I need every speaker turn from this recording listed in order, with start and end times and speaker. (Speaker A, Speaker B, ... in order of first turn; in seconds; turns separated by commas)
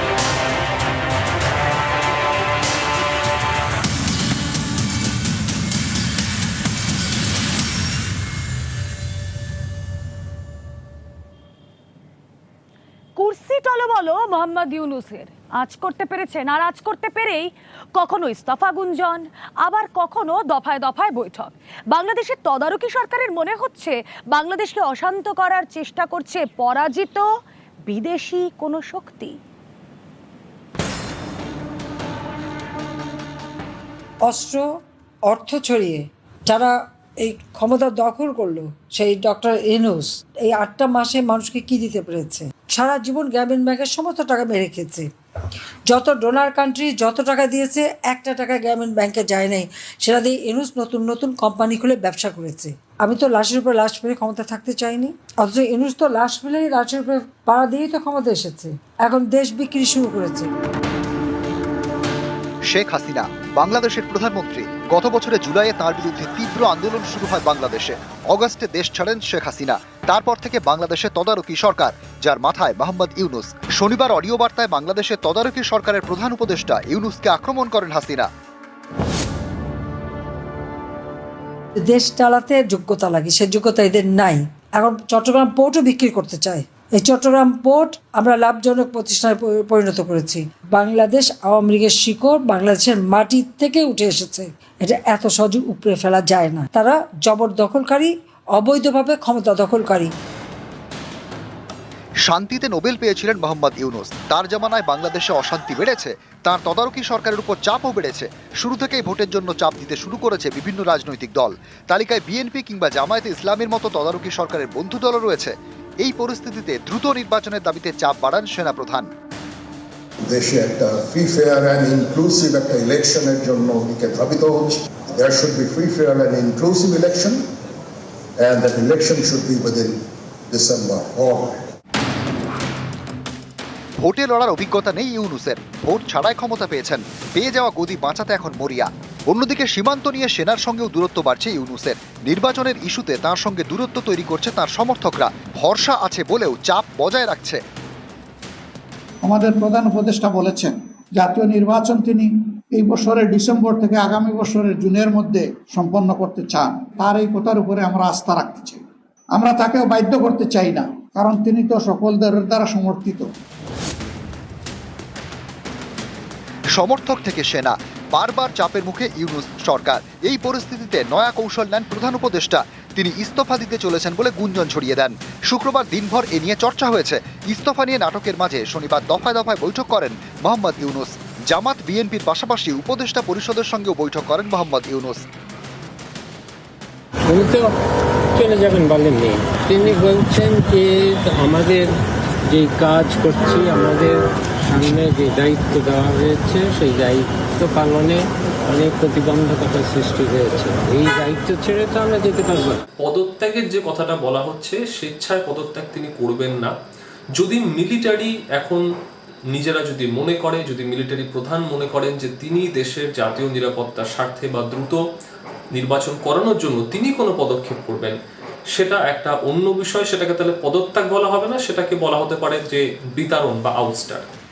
Speaker A: 13.2-27.3, Speaker A: 27.9-29.4, Speaker B: 34.2-34.6, Speaker B: 35.3-45.1, Speaker B: 45.9-60.5, Speaker C: 62.7-78.3, Speaker B: 81.8-100.1, Speaker C: 102.2-119.1, Speaker D: 120.2-127.4, Speaker D: 128.4-130.0, Speaker D: 130.5-131.6, Speaker C: 134.0-147.6, Speaker E: 149.2-163.3, Speaker C: 166.7-185.2, Speaker F: 187.2-187.7, Speaker F: 188.3-191.9, Speaker F: 192.5-202.8, Speaker G: 203.0-206.7, Speaker G: 207.3-208.8, Speaker G: 209.5-215.0, Speaker G: 215.7-218.2, Speaker G: 218.7-224.3